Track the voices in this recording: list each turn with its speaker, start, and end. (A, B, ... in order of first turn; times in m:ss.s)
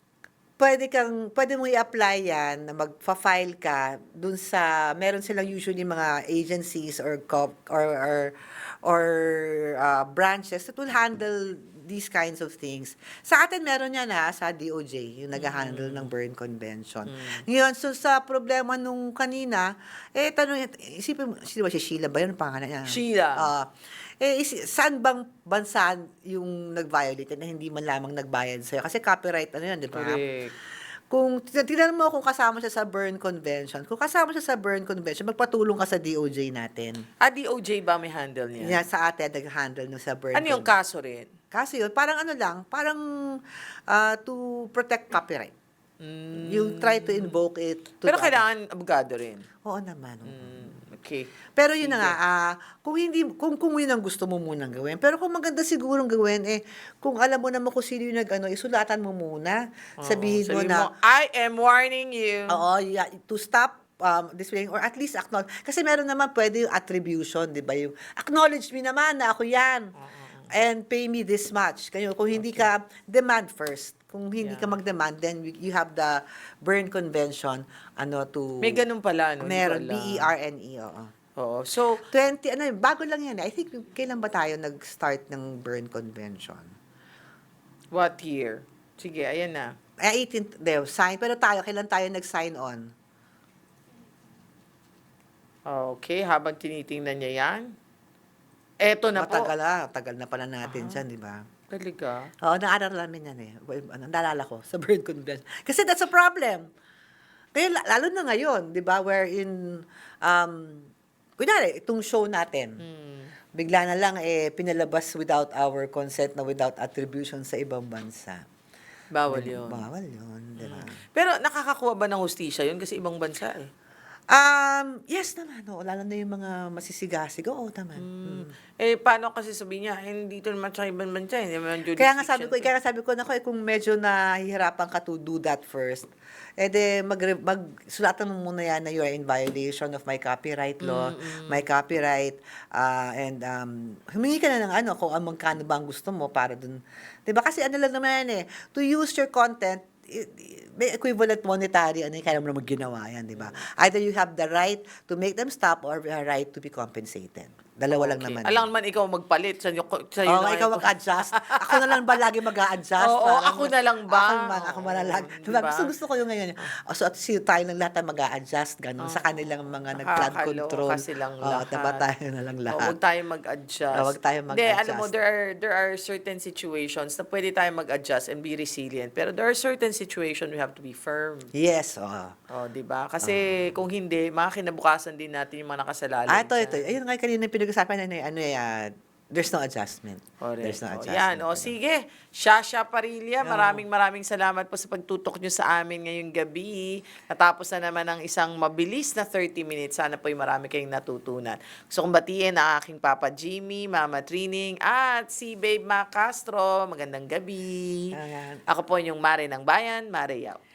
0:00.6-0:30.2 A
0:15.3-0:16.1 B
0:17.0-0:17.4 B
0:22.9-0:23.5 B
0:29.9-0:30.5 B
0:31.1-0:37.0 A
0:37.2-0:38.8 B
0:38.6-0:40.7 A
0:40.3-0:41.3 B
0:41.5-0:45.5 A
0:46.0-0:47.4 B
0:46.4-0:48.4 A
0:48.0-0:49.4 B
0:49.6-0:50.6 A
0:50.2-0:51.3 B
0:51.6-1:00.9 A
0:51.8-0:52.2 B
1:00.0-1:02.6 B
1:02.5-1:09.9 A
1:10.0-1:10.5 B
1:10.5-1:18.8 A
1:12.4-1:12.7 B
1:14.4-1:14.8 B
1:18.6-1:20.3 B
1:19.4-1:21.1 A
1:21.4-1:22.0 B
1:22.1-1:26.7 A
1:27.9-1:29.7 B
1:30.0-1:32.9 A
1:35.7-1:37.7 B
1:38.8-1:39.5 B
1:39.2-1:41.4 A
1:40.6-1:41.0 B
1:41.7-1:42.3 B
1:42.4-1:46.7 A
1:47.5-1:52.8 A
1:52.8-1:53.3 B
1:53.5-1:58.4 A
1:59.1-1:59.8 B
1:59.3-2:01.0 A
2:00.6-2:03.7 B
2:04.3-2:08.5 A
2:08.0-2:12.6 B
2:12.0-2:38.7 A
2:20.8-2:21.6 B
2:33.4-2:33.6 B
2:37.9-2:42.1 B
2:40.3-2:53.0 A
2:43.0-2:45.9 B
2:49.0-2:49.4 B
2:49.9-2:52.0 B
2:52.7-3:01.5 B
2:53.9-2:55.1 A
3:01.5-3:02.4 A
3:02.5-3:06.8 B
3:06.3-3:11.7 A
3:10.4-3:28.2 B
3:13.4-3:13.8 A
3:28.1-3:28.6 A
3:28.7-3:30.6 B